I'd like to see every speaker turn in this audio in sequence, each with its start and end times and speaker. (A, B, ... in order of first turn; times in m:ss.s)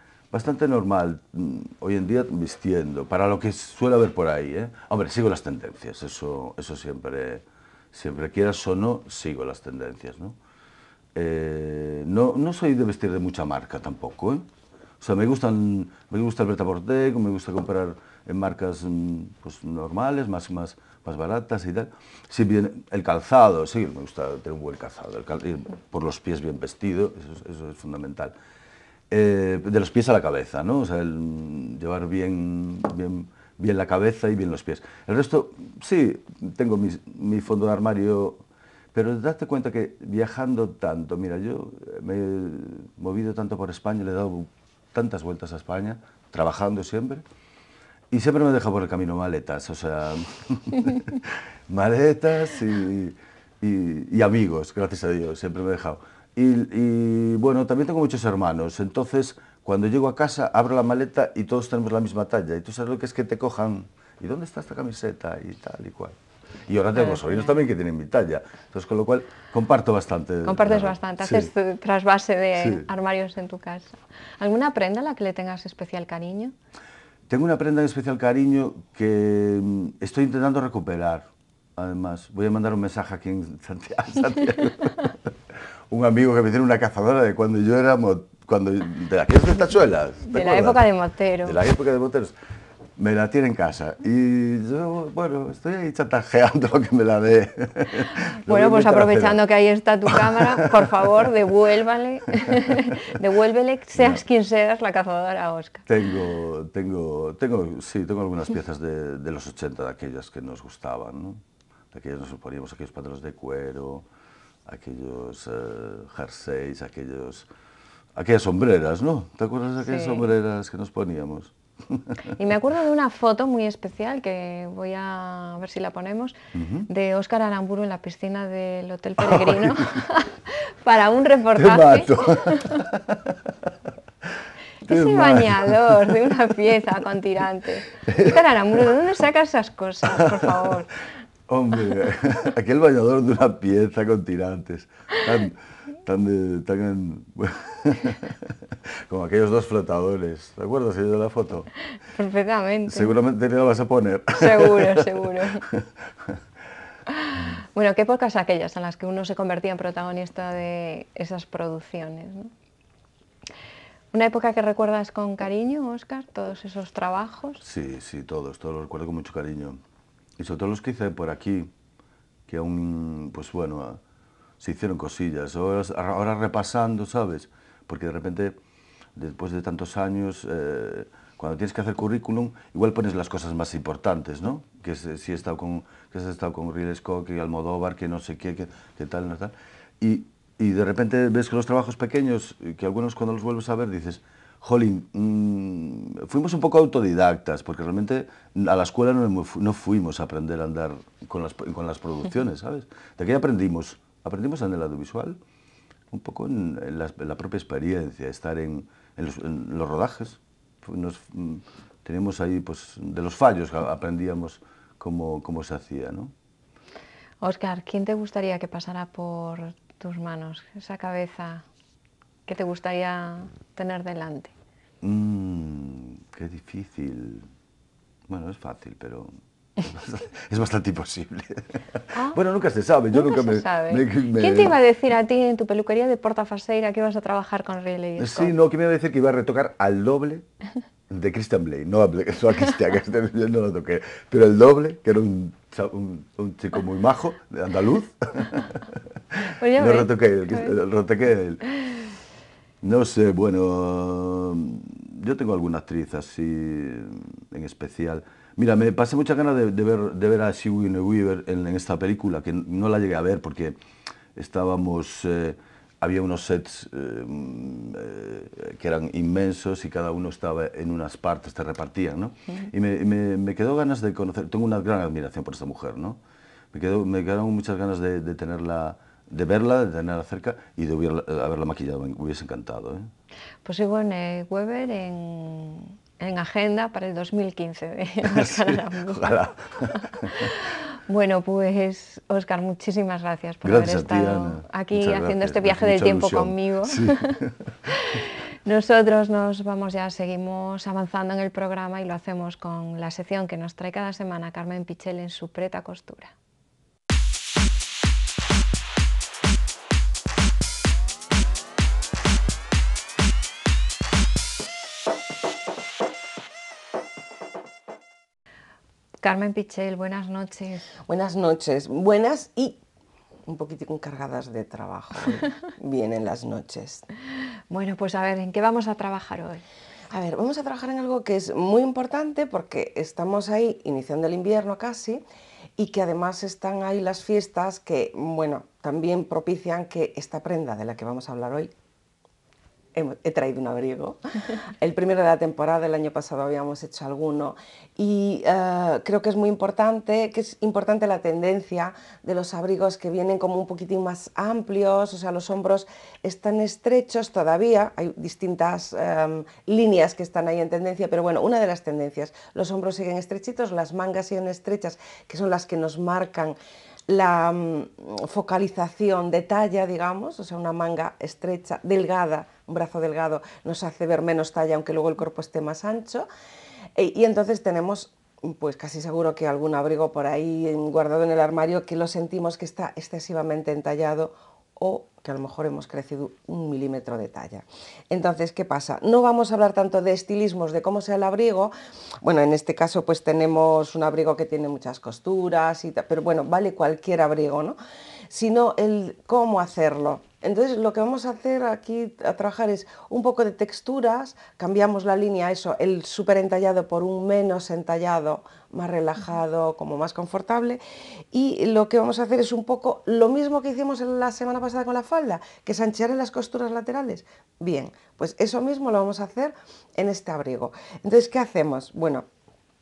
0:00.3-0:10.4 A
0:11.1-0:14.5 A
0:15.0-0:28.3 A
0:29.1-0:47.2 A
0:48.1-1:11.5 A
1:06.9-1:07.5 B
1:10.4-1:16.5 B
1:12.6-1:12.9 A
1:17.3-1:25.3 A
1:25.9-1:30.8 A
1:30.3-1:31.6 B
1:31.4-1:32.3 A
1:33.0-1:39.4 A
1:38.4-1:45.9 B
1:40.1-1:41.3 A
1:42.5-1:42.8 A
1:44.0-1:44.2 A
1:45.9-1:54.0 A
1:54.6-1:57.5 A
1:58.1-2:02.3 A
1:59.8-2:00.3 B
2:02.4-2:06.4 B
2:06.5-2:06.9 A
2:06.9-2:12.8 B
2:09.2-2:10.0 A
2:11.5-2:13.7 A
2:14.8-2:21.0 B
2:14.9-2:16.3 A
2:18.0-2:18.9 A
2:20.1-2:20.7 A
2:21.5-2:31.7 A
2:32.1-2:33.1 B
2:32.9-2:36.4 A
2:34.4-2:35.6 B
2:37.1-2:42.5 B
2:44.1-2:47.6 B
2:47.6-2:49.8 A
2:50.4-2:51.7 A
2:52.5-2:54.0 A
2:54.6-2:58.6 A
2:59.2-3:25.4 A
3:26.1-3:36.3 A
3:37.4-3:41.6 B
3:42.5-3:44.5 B
3:45.0-3:47.5 A
3:48.3-3:54.8 A
3:52.1-3:52.4 B
3:53.1-3:58.5 B
3:58.2-4:00.4 A
4:01.1-4:11.6 A
4:09.6-4:10.8 B
4:12.8-4:23.8 A
4:24.3-4:36.2 A
4:36.7-4:43.1 A
4:43.6-5:06.3 B
4:48.2-4:50.5 A
4:53.6-4:57.7 A
5:19.2-5:20.9 B
5:21.0-5:22.8 C
5:23.5-5:27.0 C
5:27.7-5:29.6 B
5:30.1-5:35.2 C
5:35.8-5:41.7 C
5:42.9-6:06.6 C
6:07.1-6:16.3 C
6:16.9-6:37.8 C
6:38.3-6:50.8 C
6:51.3-7:02.2 C